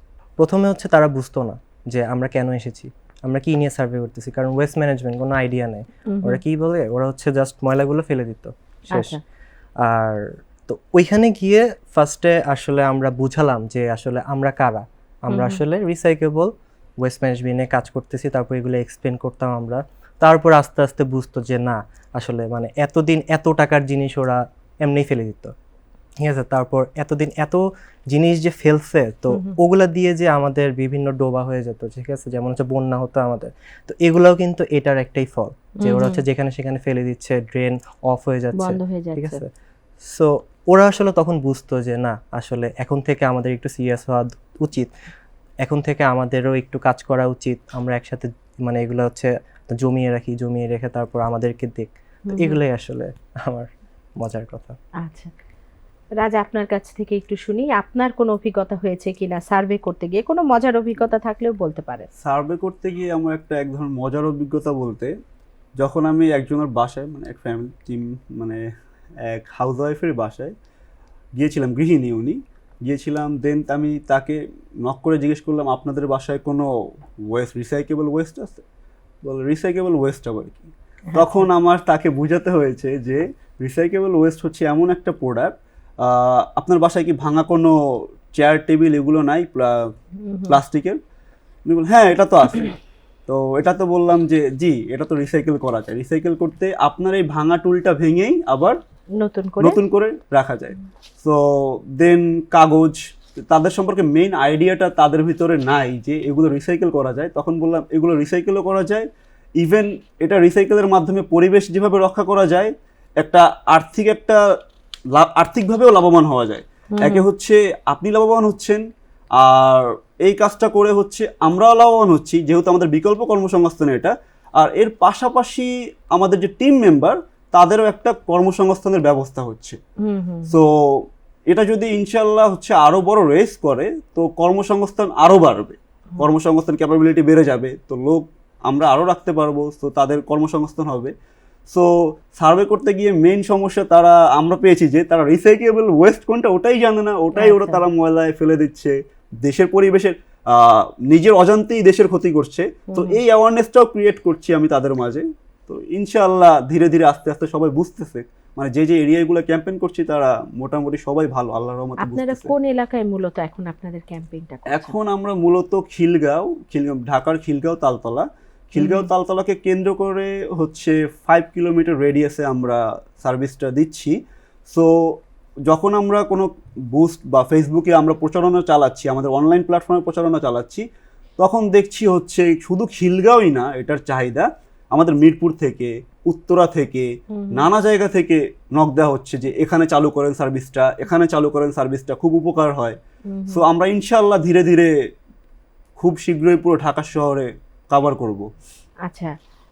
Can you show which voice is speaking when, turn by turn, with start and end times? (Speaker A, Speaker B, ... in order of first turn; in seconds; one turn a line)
Speaker A: 0.4-9.2
Speaker B: 6.1-6.4
Speaker B: 8.9-9.2
Speaker A: 9.8-25.5
Speaker B: 15.3-15.6
Speaker A: 26.2-39.5
Speaker B: 35.8-36.2
Speaker B: 38.5-39.4
Speaker A: 40.0-44.9
Speaker A: 45.6-54.8
Speaker B: 52.3-52.5
Speaker B: 55.0-55.3
Speaker B: 56.2-62.1
Speaker C: 62.2-65.1
Speaker C: 65.8-68.6
Speaker C: 69.2-70.5
Speaker C: 71.4-76.7
Speaker C: 77.3-78.6
Speaker C: 79.2-87.8
Speaker B: 81.1-81.4
Speaker C: 88.3-89.9
Speaker B: 90.2-90.6
Speaker C: 90.5-91.0
Speaker C: 91.7-92.7
Speaker C: 93.3-98.8
Speaker B: 99.2-99.8
Speaker C: 99.6-109.0
Speaker C: 109.6-114.4
Speaker C: 115.1-118.8
Speaker B: 117.0-117.2
Speaker C: 119.4-129.8
Speaker B: 130.0-130.5
Speaker C: 130.5-141.1
Speaker C: 141.7-162.5
Speaker B: 147.3-147.8
Speaker B: 152.9-153.2
Speaker B: 162.0-164.9
Speaker C: 164.7-174.1
Speaker B: 168.8-169.1
Speaker C: 174.7-180.8
Speaker C: 181.4-193.0
Speaker B: 187.3-187.7
Speaker B: 193.3-193.6
Speaker C: 193.5-194.9
Speaker C: 196.0-198.4
Speaker B: 199.1-199.3